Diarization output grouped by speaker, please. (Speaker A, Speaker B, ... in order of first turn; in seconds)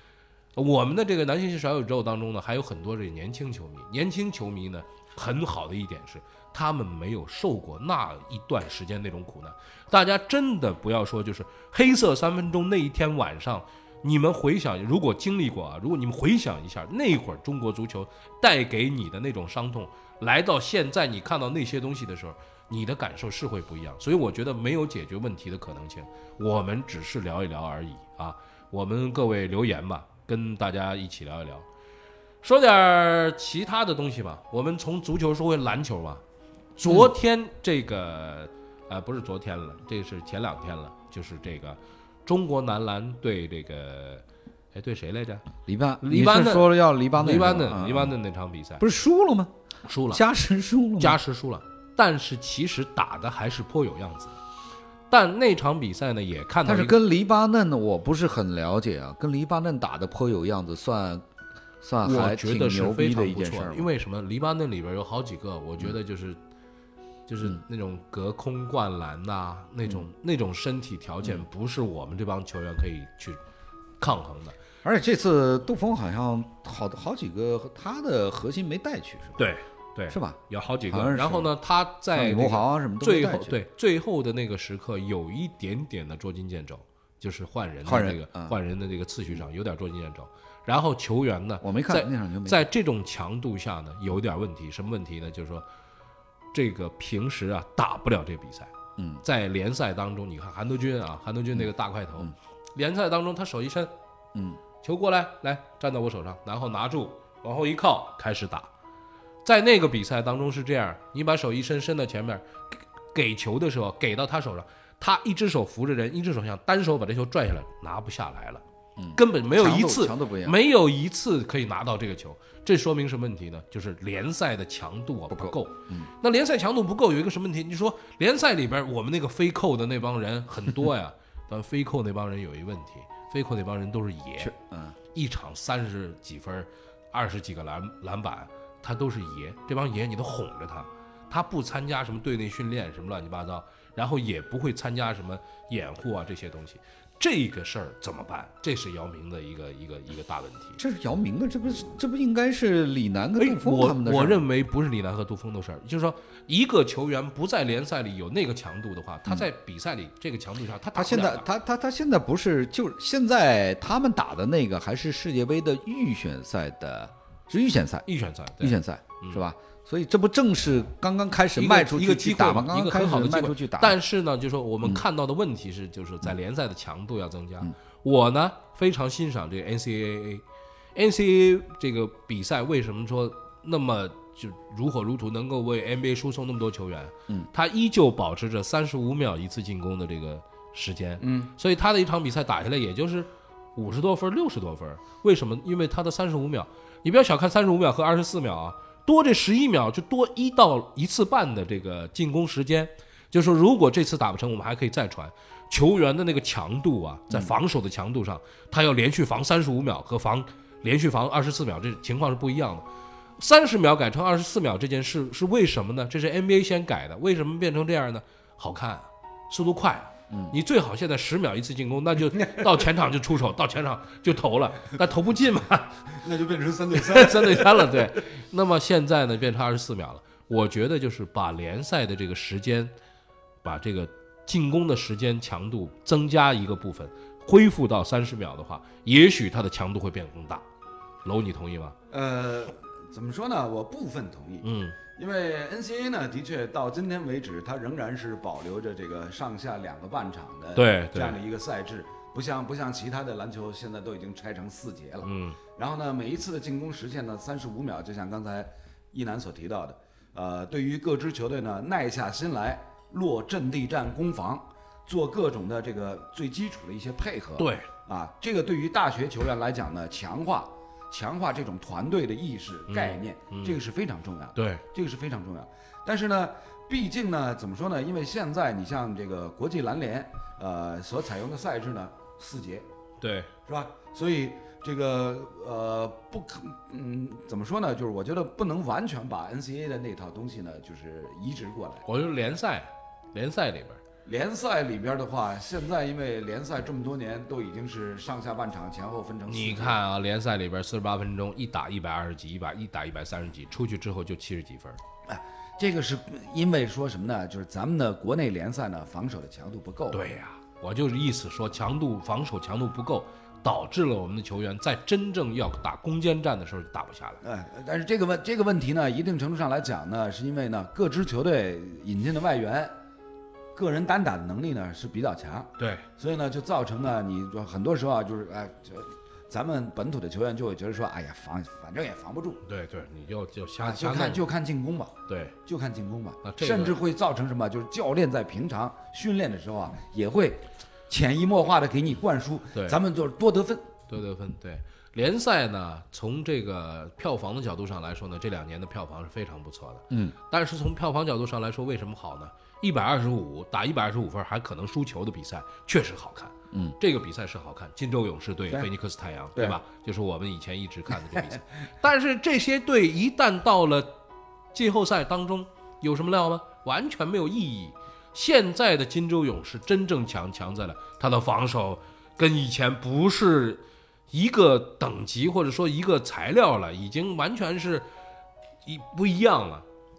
Speaker A: 0.6-31.6, 32.4-36.2, 36.8-45.4, 46.0-48.8, 49.9-50.2, 51.0-54.4, 55.1-57.0, 62.0-66.4, 67.3-73.4, 74.0-74.5, 79.4-95.6, 96.5-103.9, 104.8-108.7, 109.4-112.5, 113.1-118.6, 119.1-134.5, 135.1-150.8, 153.4-161.4, 168.1-169.4, 171.6-180.4, 180.9-212.8, 213.4-226.0, 226.9-232.9, 233.6-240.6, 241.2-241.9, 244.6-245.0, 250.7-251.4, 255.2-255.6, 267.6-267.9, 272.9-273.7, 274.6-274.8, 283.2-283.5, 292.1-294.0, 299.5-305.0, 310.1-317.4, 325.8-326.0, 332.6-334.4, 335.3-335.5, 336.4-337.0, 344.1-364.1, 364.7-378.1, 378.8-379.9
Speaker B: 45.6-48.1, 48.8-49.5, 50.1-51.2, 56.6-61.2, 61.8-63.9, 74.8-79.5, 80.1-80.4, 80.9-81.5, 82.1-83.6, 87.8-88.5, 91.6-92.7, 99.0-99.2, 119.0-120.6, 125.3-126.1, 134.4-134.9, 150.8-154.4, 160.9-168.1, 168.6-174.0, 220.3-220.5, 350.1-350.3
Speaker C: 191.2-191.5, 222.4-222.7, 226.2-228.0, 242.1-282.9, 283.7-292.0, 294.2-300.0, 305.3-310.2, 317.4-322.9, 323.7-332.6, 333.8-335.1, 335.6-343.9